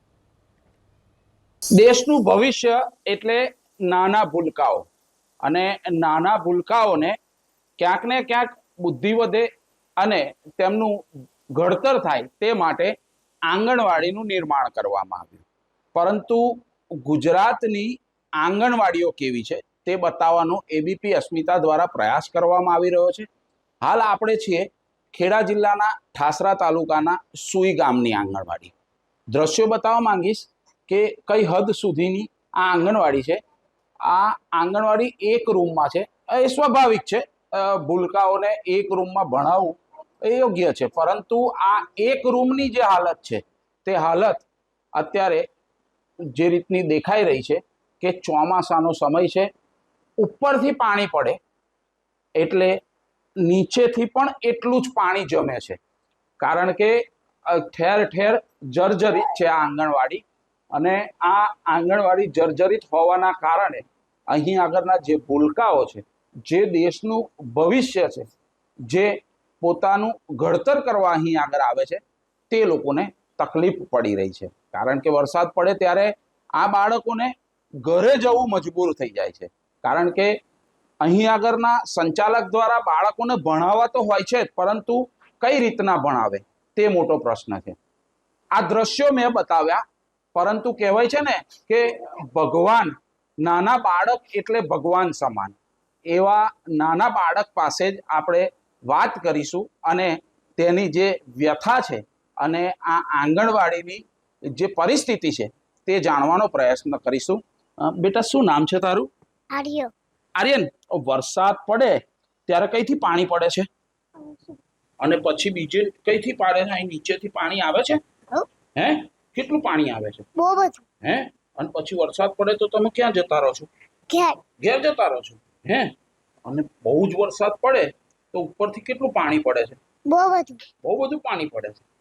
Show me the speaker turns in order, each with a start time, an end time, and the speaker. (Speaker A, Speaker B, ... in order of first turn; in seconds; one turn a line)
Speaker A: 1.8-4.9
Speaker A: 5.4-7.2
Speaker A: 7.8-9.5
Speaker A: 10.0-11.0
Speaker A: 11.5-12.9
Speaker A: 13.5-23.3
Speaker A: 23.8-28.7
Speaker A: 29.3-33.4
Speaker A: 34.0-45.4
Speaker A: 46.3-49.5
Speaker A: 50.2-51.4
Speaker A: 52.4-52.8
Speaker A: 53.4-55.8
Speaker A: 56.4-56.9
Speaker A: 57.5-60.2
Speaker A: 60.7-68.3
Speaker A: 68.9-77.3
Speaker A: 77.8-80.3
Speaker A: 81.0-87.8
Speaker A: 88.5-89.8
Speaker A: 90.3-95.5
Speaker A: 96.1-109.1
Speaker B: 109.5-109.9
Speaker A: 110.4-113.7
Speaker B: 114.2-114.6
Speaker A: 115.0-118.0
Speaker A: 118.8-120.2
Speaker B: 120.4-120.8
Speaker A: 121.0-123.7
Speaker B: 124.1-124.4
Speaker A: 124.6-125.9
Speaker A: 126.5-129.8
Speaker B: 130.1-130.6
Speaker A: 130.8-131.8